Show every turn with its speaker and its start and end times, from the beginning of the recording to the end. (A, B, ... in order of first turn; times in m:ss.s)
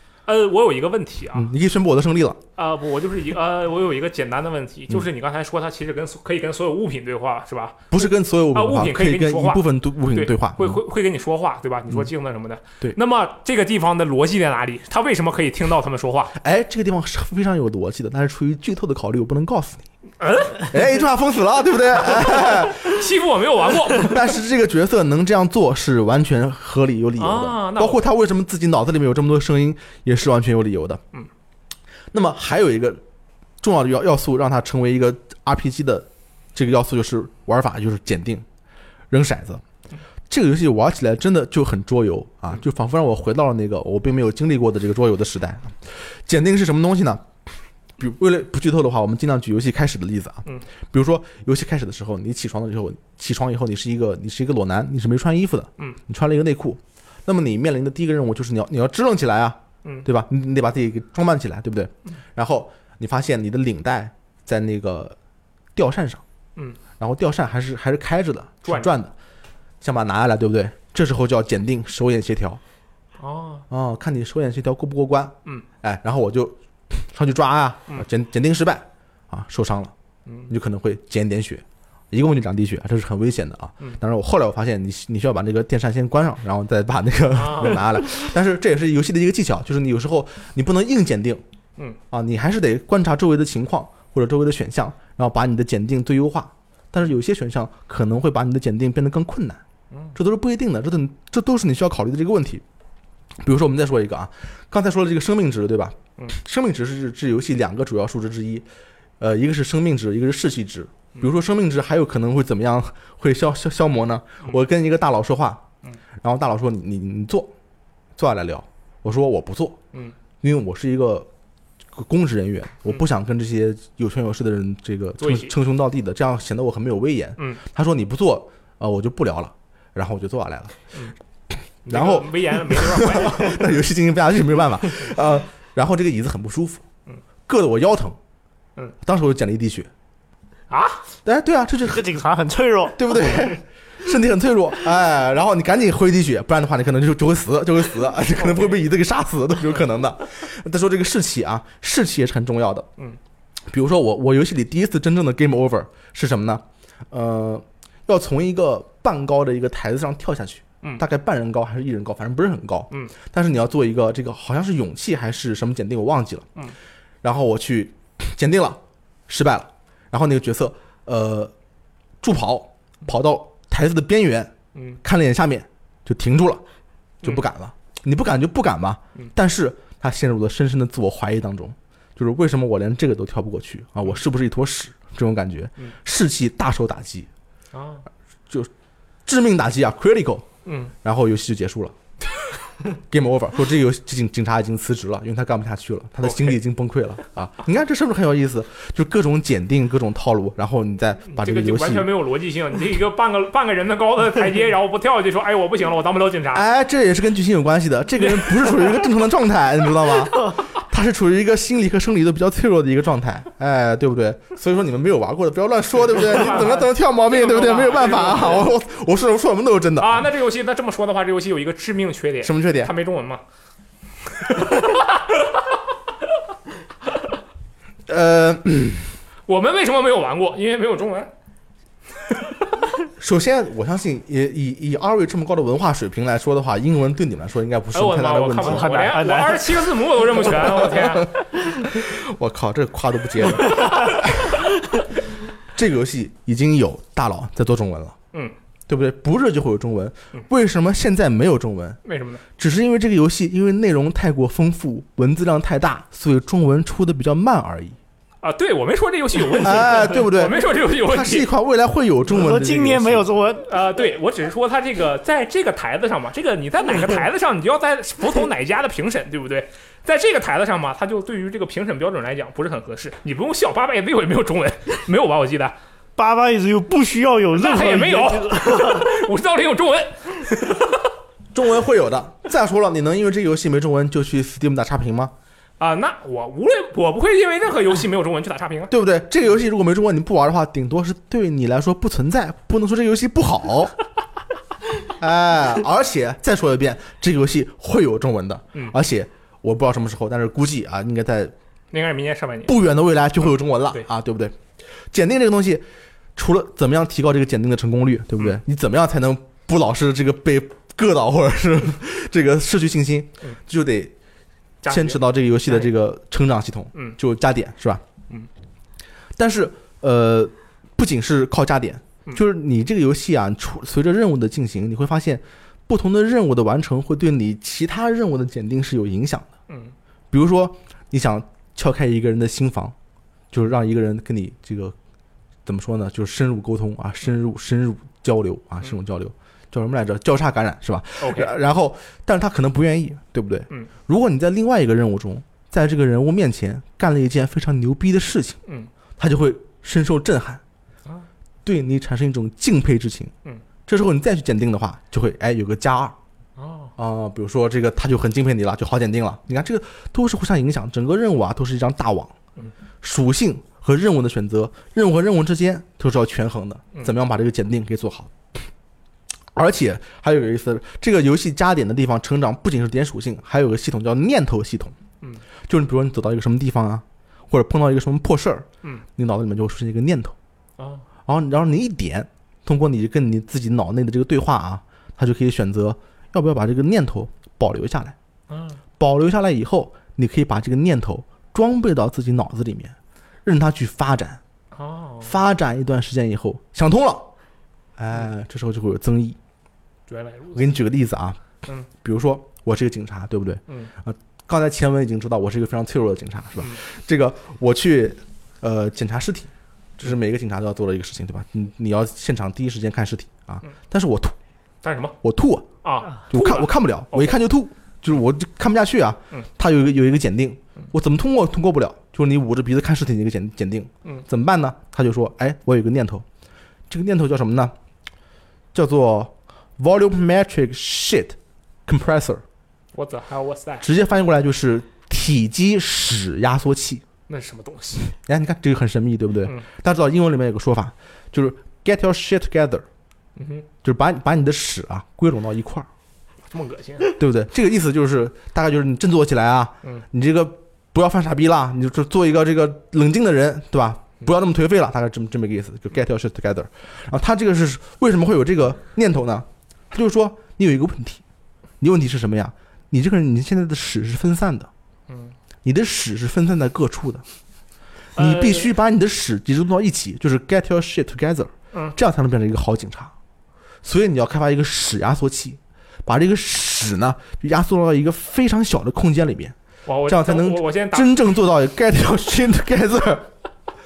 0:00.3-0:01.5 A
0:01.3-0:02.4 B
0:02.6-0:07.9 A
0:07.9-0:10.8 B
0:08.5-0:16.3 A
0:16.4-0:19.8 B
0:20.2-0:20.7 A
0:20.6-0:23.0 B
0:22.0-0:24.2 A
0:23.9-0:31.0 B
0:27.2-0:28.0 A
0:32.1-0:33.0 B
0:33.6-0:38.4 B
0:39.1-0:39.6 B
0:40.3-0:47.2 B
0:48.0-1:05.2 B
1:05.7-1:06.2 B
1:07.0-1:09.1 B
1:09.8-1:12.6 B
1:13.2-1:13.6 A
1:13.7-1:19.9 B
1:20.2-1:20.5 A
1:20.5-1:31.4 B
1:27.3-1:27.8 A
1:32.1-1:39.6 B
1:40.1-1:42.6 B
1:43.4-1:48.6 B
1:49.2-1:55.6 B
1:56.2-1:57.5 B
1:58.2-1:59.8 B
2:00.4-2:01.3 B
2:01.9-2:10.8 B
2:05.2-2:05.5 A
2:11.9-2:13.7 A
2:11.9-2:16.8 B
2:17.5-2:18.2 B
2:19.0-2:19.9 B
2:20.7-2:21.0 A
2:21.2-2:22.1 B
2:21.9-2:23.5 C
2:22.9-2:32.9 B
2:28.4-2:28.8 A
2:33.7-2:46.5 B
2:47.2-2:51.5 B
2:52.2-2:56.6 B
2:54.7-2:55.0 A
2:57.2-3:07.3 B
3:07.7-3:08.0 A
3:09.2-3:10.4 B
3:10.6-3:10.9 A
3:11.0-3:11.9 B
3:12.9-3:22.1 B
3:16.2-3:16.6 A
3:21.3-3:26.6 A
3:26.5-3:40.2 B
3:28.2-3:28.9 A
3:36.2-3:38.7 A
3:40.0-3:43.4 A
3:42.4-3:42.9 B
3:44.3-3:45.6 A
3:48.1-3:49.1 B
3:49.5-3:51.3 A
3:53.2-3:59.1 B
3:57.9-4:01.3 A
3:58.6-4:00.0 C
4:00.5-4:04.6 B
4:05.7-4:08.2 B
4:08.9-4:12.0 B
4:12.0-4:12.4 A
4:12.6-4:18.0 B
4:18.4-4:21.5 A
4:19.6-4:23.3 B
4:22.3-4:23.7 C
4:23.6-4:35.7 A
4:36.2-4:39.2 C
4:37.5-4:41.0 A
4:41.5-4:45.3 B
4:45.8-4:48.9 A
4:48.9-4:53.9 B
4:55.0-5:01.5 B
5:01.9-5:02.8 A
5:02.6-5:04.6 B
5:05.1-5:05.8 B
5:06.4-5:14.1 B
5:14.8-5:15.9 A
5:14.8-5:18.0 B
5:19.4-5:29.5 B
5:29.7-5:29.9 A
5:30.3-5:32.9 B
5:33.5-5:35.0 B
5:35.6-5:48.6 B
5:41.2-5:41.5 A
5:49.2-5:50.6 B
5:51.6-5:53.3 B
5:53.9-5:56.2 B
5:56.6-5:56.9 A
5:57.0-6:02.3 B
6:03.0-6:08.3 B
6:09.5-6:15.0 B
6:15.7-6:20.3 B
6:20.8-6:21.0 A
6:21.2-6:28.2 B
6:28.5-6:28.8 A
6:29.0-6:34.4 B
6:34.7-6:35.3 A
6:35.2-6:37.3 B
6:38.0-6:39.4 B
6:40.1-6:40.7 A
6:40.5-6:41.4 B
6:41.9-6:54.3 B
6:54.8-6:55.2 A
6:55.2-6:55.7 B
6:55.8-6:57.3 A
6:56.2-7:06.2 B
7:06.9-7:07.7 B
7:08.7-7:12.4 B
7:12.9-7:13.8 A
7:13.8-7:17.0 B
7:17.3-7:18.1 A
7:18.1-7:22.8 B
7:23.4-7:23.6 A
7:23.8-7:25.9 B
7:26.5-7:27.1 A
7:27.1-7:41.2 B
7:41.8-7:44.7 B
7:45.1-7:45.3 A
7:45.6-7:47.2 B
7:48.2-7:48.7 A
7:48.2-7:53.1 B
7:53.8-7:59.6 B
7:59.8-8:01.1 A
8:00.1-8:03.3 B